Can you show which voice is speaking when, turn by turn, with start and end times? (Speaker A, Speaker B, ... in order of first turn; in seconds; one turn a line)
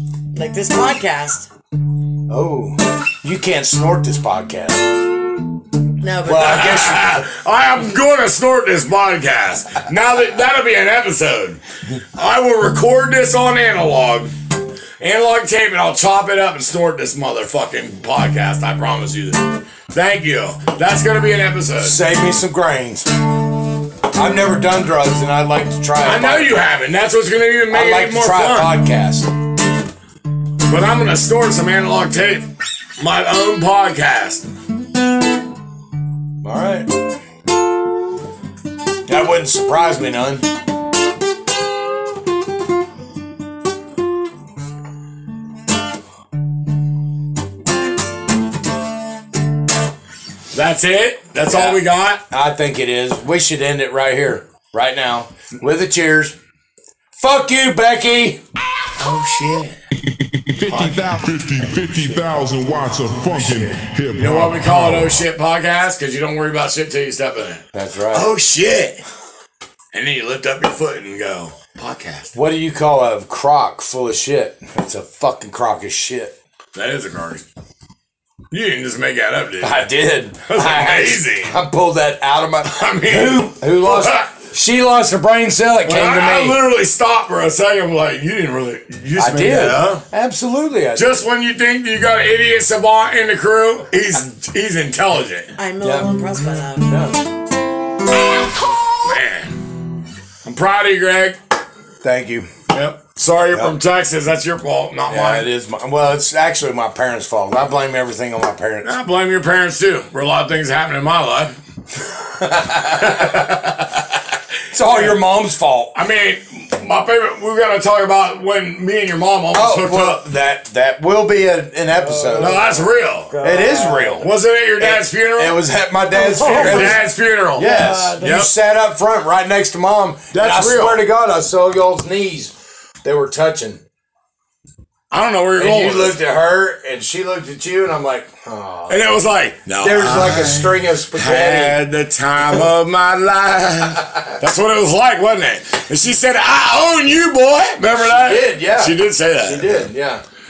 Speaker A: 0.3-1.5
Speaker B: 2.3-5.0
Speaker A: 6.0-6.7
Speaker B: 6.2-7.3
Speaker C: 6.4-11.6
Speaker C: 12.1-14.3
Speaker C: 15.0-22.0
Speaker B: 21.8-23.1
Speaker B: 24.1-26.6
Speaker C: 26.0-28.8
Speaker B: 27.7-29.3
Speaker C: 30.7-34.5
Speaker B: 36.4-36.9
Speaker B: 39.1-40.5
Speaker C: 50.5-52.2
Speaker B: 51.5-56.4
Speaker B: 57.1-58.4
Speaker C: 59.0-59.8
Speaker D: 60.0-65.2
Speaker C: 60.7-61.2
Speaker B: 63.3-63.8
Speaker C: 64.2-69.0
Speaker B: 67.7-68.3
Speaker C: 69.9-72.3
Speaker B: 72.3-76.3
Speaker C: 76.8-77.5
Speaker C: 78.5-79.9
Speaker B: 79.6-86.6
Speaker C: 80.5-81.5
Speaker C: 82.6-84.3
Speaker C: 85.9-90.0
Speaker B: 89.2-91.2
Speaker C: 91.0-95.5
Speaker A: 95.6-97.0
Speaker B: 95.8-96.1
Speaker B: 96.9-97.2
Speaker C: 99.0-99.6
Speaker C: 100.4-101.4
Speaker B: 102.0-102.5
Speaker C: 102.7-105.5
Speaker B: 105.1-108.9
Speaker C: 108.8-111.6
Speaker B: 112.2-113.5
Speaker C: 112.8-114.2
Speaker B: 114.7-115.9
Speaker C: 114.8-115.2
Speaker C: 116.0-120.2
Speaker B: 119.5-122.7
Speaker A: 121.9-124.2
Speaker C: 122.4-123.3
Speaker B: 123.4-133.8
Speaker C: 124.2-125.6
Speaker A: 126.2-127.0
Speaker C: 126.2-128.5
Speaker A: 127.6-128.4
Speaker C: 130.3-131.1
Speaker C: 135.1-136.2
Speaker B: 135.6-139.2
Speaker C: 138.9-149.9
Speaker B: 139.8-141.8
Speaker B: 148.0-150.2